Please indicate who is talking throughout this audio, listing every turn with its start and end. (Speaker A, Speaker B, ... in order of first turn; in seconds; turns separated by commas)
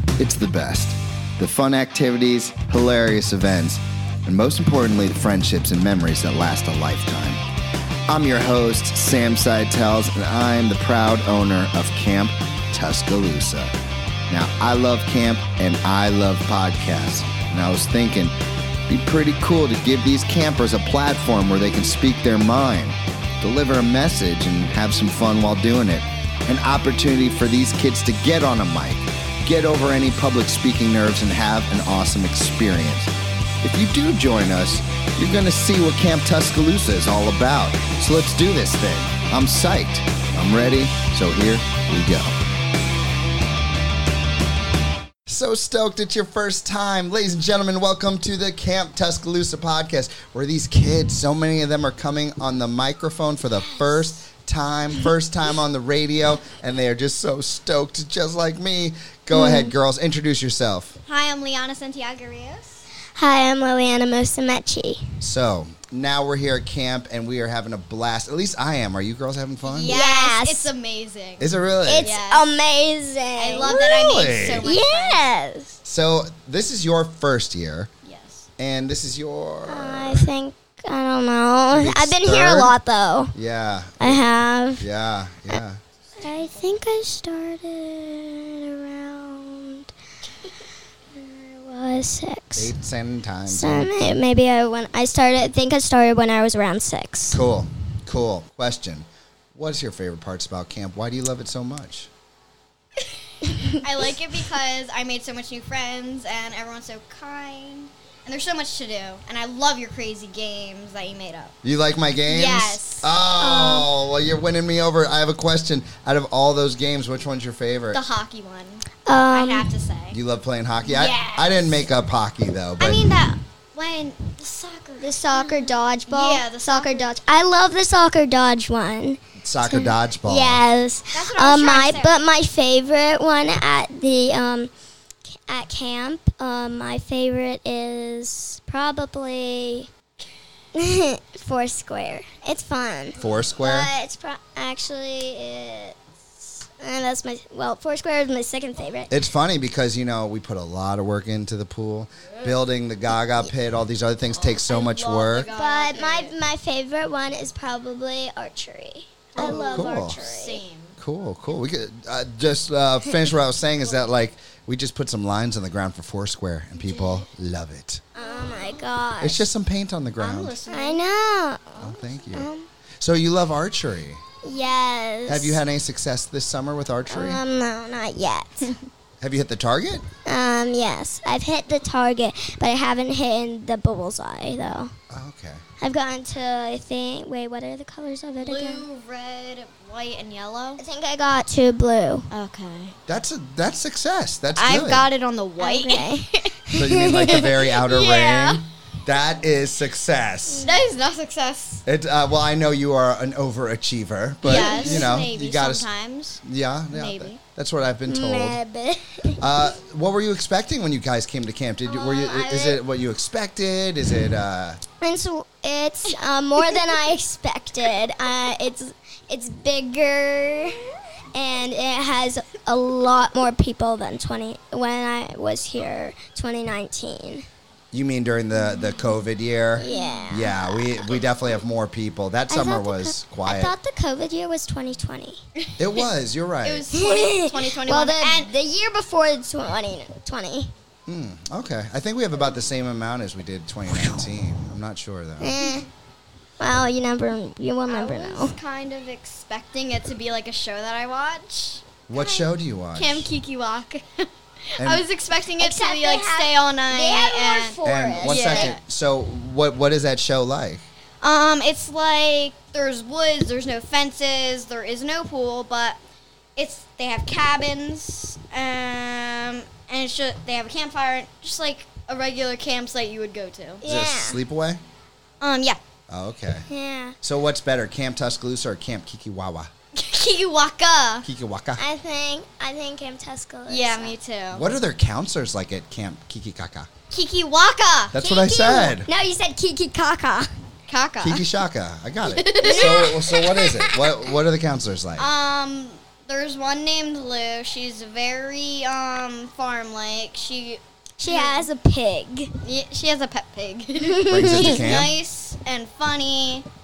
Speaker A: 0.2-7.4, Speaker A: 8.1-13.7, Speaker A: 14.3-18.4, Speaker A: 18.9-42.3, Speaker A: 45.3-61.0, Speaker B: 53.7-54.1, Speaker C: 61.1-62.9, Speaker B: 63.1-65.1, Speaker A: 65.2-70.0, Speaker C: 69.6-72.5, Speaker B: 69.9-70.7, Speaker A: 71.4-72.1, Speaker B: 71.9-73.8, Speaker C: 73.4-75.2, Speaker A: 73.7-74.7, Speaker B: 74.6-75.8, Speaker A: 75.8-77.9, Speaker C: 78.0-78.5, Speaker A: 78.6-80.3, Speaker B: 79.7-83.3, Speaker A: 81.7-82.8, Speaker A: 83.3-84.2, Speaker B: 84.0-84.8, Speaker A: 84.8-85.8, Speaker B: 86.2-89.9, Speaker B: 91.2-92.7, Speaker A: 92.6-94.2, Speaker B: 93.5-97.4, Speaker A: 97.3-102.1, Speaker C: 103.7-111.5, Speaker A: 111.6-118.0, Speaker C: 112.3-113.1, Speaker B: 113.4-113.9, Speaker C: 117.9-120.2, Speaker B: 119.1-119.7, Speaker A: 120.1-123.0, Speaker C: 120.8-121.8, Speaker B: 121.0-121.6, Speaker C: 122.8-127.1, Speaker B: 125.0-134.7, Speaker A: 129.4-130.6, Speaker C: 131.1-132.2, Speaker B: 135.3-139.9, Speaker B: 140.8-146.0, Speaker A: 143.2-143.9, Speaker B: 146.6-149.2, Speaker A: 149.1-155.5, Speaker C: 154.4-156.3, Speaker B: 155.5-160.6, Speaker C: 159.3-161.0, Speaker A: 159.4-160.2, Speaker A: 161.0-168.0, Speaker C: 166.7-167.3, Speaker B: 168.2-169.5, Speaker C: 168.2-168.8, Speaker A: 169.2-170.6, Speaker C: 170.2-171.0, Speaker B: 170.7-172.7, Speaker A: 171.8-172.5, Speaker A: 173.0-174.2, Speaker B: 174.4-175.6, Speaker A: 175.3-177.4, Speaker B: 177.1-178.7, Speaker A: 179.2-180.1, Speaker B: 180.3-184.9, Speaker A: 185.1-185.6, Speaker B: 185.8-188.8, Speaker C: 188.4-190.8, Speaker B: 190.8-192.3, Speaker C: 192.3-193.0, Speaker A: 193.1-195.1, Speaker C: 194.6-196.5, Speaker B: 195.6-197.4, Speaker A: 196.7-200.7, Speaker C: 197.3-198.6, Speaker C: 200.5-201.8, Speaker A: 201.9-205.9, Speaker C: 204.4-206.4, Speaker B: 204.5-205.1, Speaker A: 206.4-208.6, Speaker C: 206.9-207.4, Speaker B: 208.1-209.4, Speaker A: 209.4-214.8, Speaker B: 211.8-212.8, Speaker B: 215.0-227.4, Speaker A: 227.9-233.8, Speaker B: 229.8-231.2, Speaker C: 229.9-230.2, Speaker B: 232.5-235.4, Speaker C: 235.8-236.1, Speaker A: 235.8-236.9, Speaker C: 236.6-238.5, Speaker B: 236.9-240.7, Speaker A: 241.1-245.5, Speaker B: 245.4-245.9, Speaker B: 246.6-248.6, Speaker C: 247.9-258.8, Speaker A: 252.1-253.3, Speaker A: 254.8-255.1, Speaker B: 255.6-258.8, Speaker A: 257.8-260.8, Speaker C: 261.2-266.0, Speaker C: 266.6-273.8, Speaker B: 273.8-274.4, Speaker A: 273.9-274.8, Speaker C: 275.4-275.8, Speaker A: 276.1-276.7, Speaker B: 276.7-277.2, Speaker A: 277.2-279.7, Speaker C: 279.9-281.3, Speaker A: 281.2-281.8, Speaker B: 281.8-284.1, Speaker C: 283.7-284.7, Speaker A: 284.5-286.9, Speaker C: 287.1-288.2, Speaker A: 288.1-289.1, Speaker B: 288.2-290.5, Speaker C: 290.9-291.5, Speaker A: 291.2-295.3, Speaker C: 292.2-293.1, Speaker B: 292.6-294.2, Speaker C: 295.2-301.7, Speaker B: 301.2-302.5, Speaker C: 302.6-306.7, Speaker B: 304.0-304.8, Speaker A: 304.3-305.2